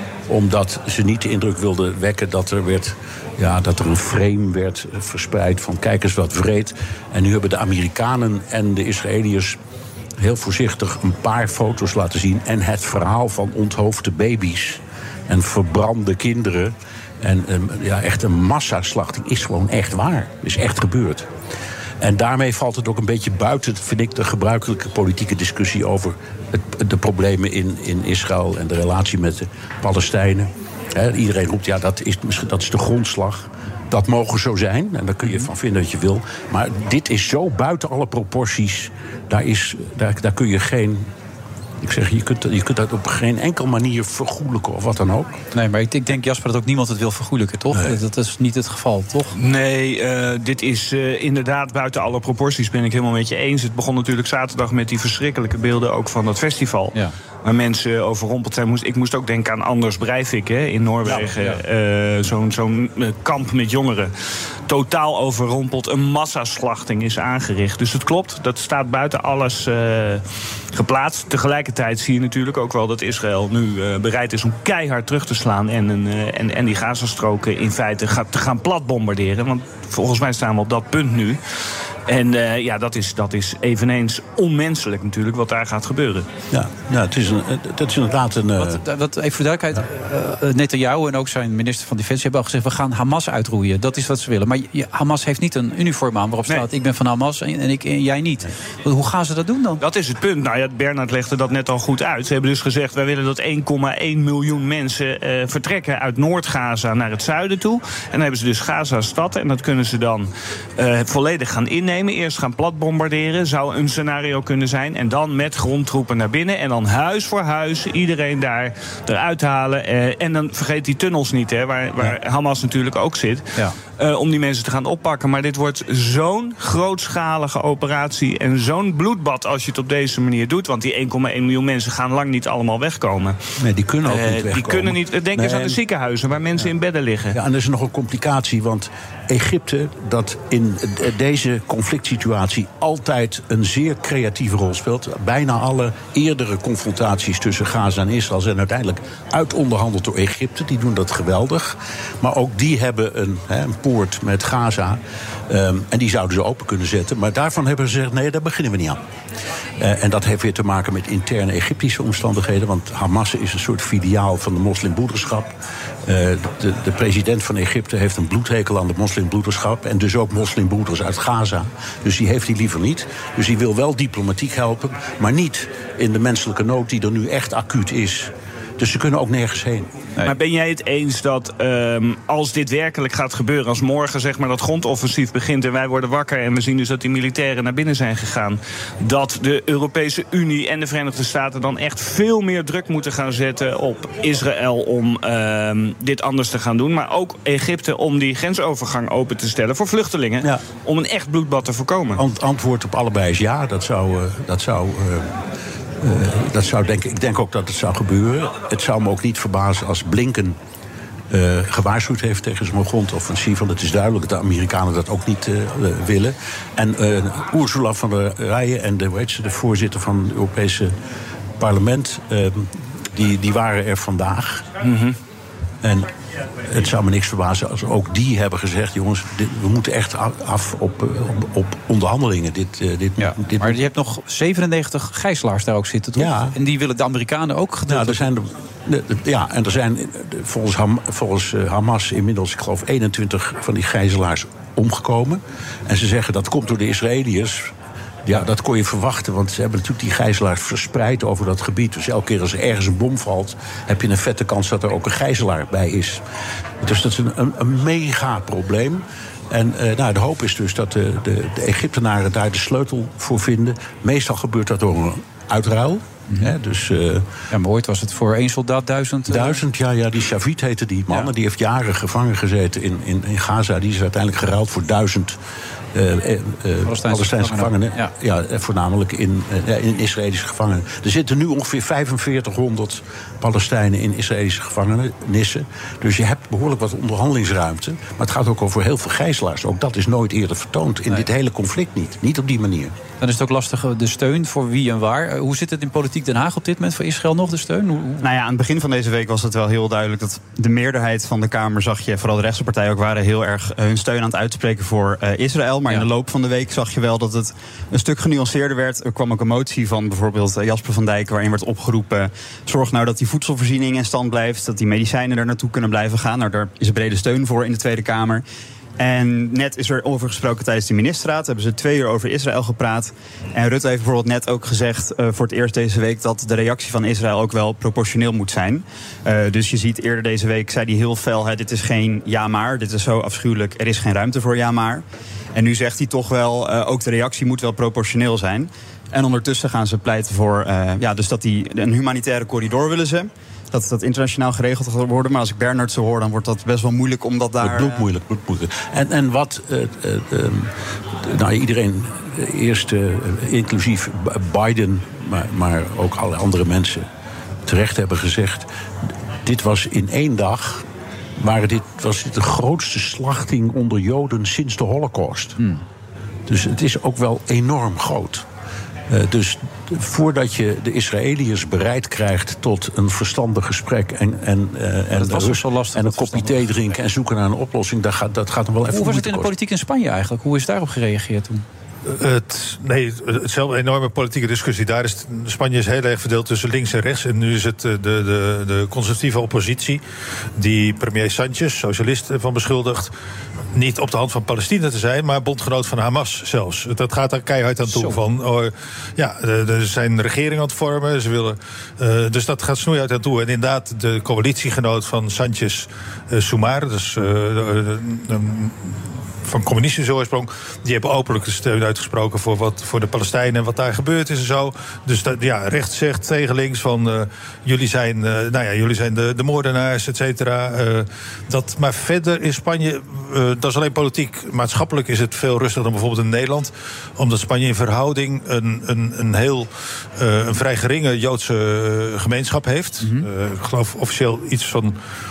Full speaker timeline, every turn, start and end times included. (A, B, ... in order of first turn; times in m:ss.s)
0:00.3-0:09.6 A
0:10.2-0:21.3 A
0:22.0-0:41.0 A
0:35.2-0:35.5 B
0:41.8-0:45.4 A
0:45.5-0:49.4 B
0:47.7-0:48.0 A
0:49.4-1:04.1 C
1:01.0-1:01.6 B
1:04.7-1:10.2 C
1:10.7-1:21.4 C
1:22.1-1:26.3 C
1:26.5-1:28.8 A
1:28.6-1:39.8 B
1:39.8-2:13.4 C
2:13.6-2:15.8 A
2:14.0-2:17.4 C
2:17.3-2:39.0 A
2:39.8-2:45.5 A
2:46.0-3:00.0 A
3:00.2-3:22.2 C
3:22.1-3:25.3 A
3:26.0-3:30.6 A
3:31.3-3:40.9 A
3:41.6-3:44.7 A
3:44.8-3:45.2 C
3:45.8-3:46.1 A
3:46.6-3:53.8 A
3:53.2-3:58.3 B
3:56.2-3:56.5 A
3:57.9-4:07.7 A
4:08.2-4:16.2 A
4:16.8-4:27.3 A
4:26.3-4:26.5 B
4:27.5-4:29.6 B
4:29.3-4:35.4 A
4:35.9-4:52.9 A
4:36.8-4:38.1 B
4:53.2-4:58.3 B
4:58.2-5:18.4 D
5:19.0-5:35.0 D
5:35.5-5:48.0 D
5:47.6-5:57.0 A
5:57.7-5:58.7 A
5:59.4-6:00.8 A
6:01.4-6:05.6 A
6:06.5-6:08.4 A
6:09.1-6:19.5 A
6:15.1-6:17.0 B
6:18.9-6:21.6 B
6:22.0-6:30.0 E
6:30.6-6:33.1 E
6:33.7-7:15.0 E
6:37.9-6:38.2 B
7:13.0-7:13.2 B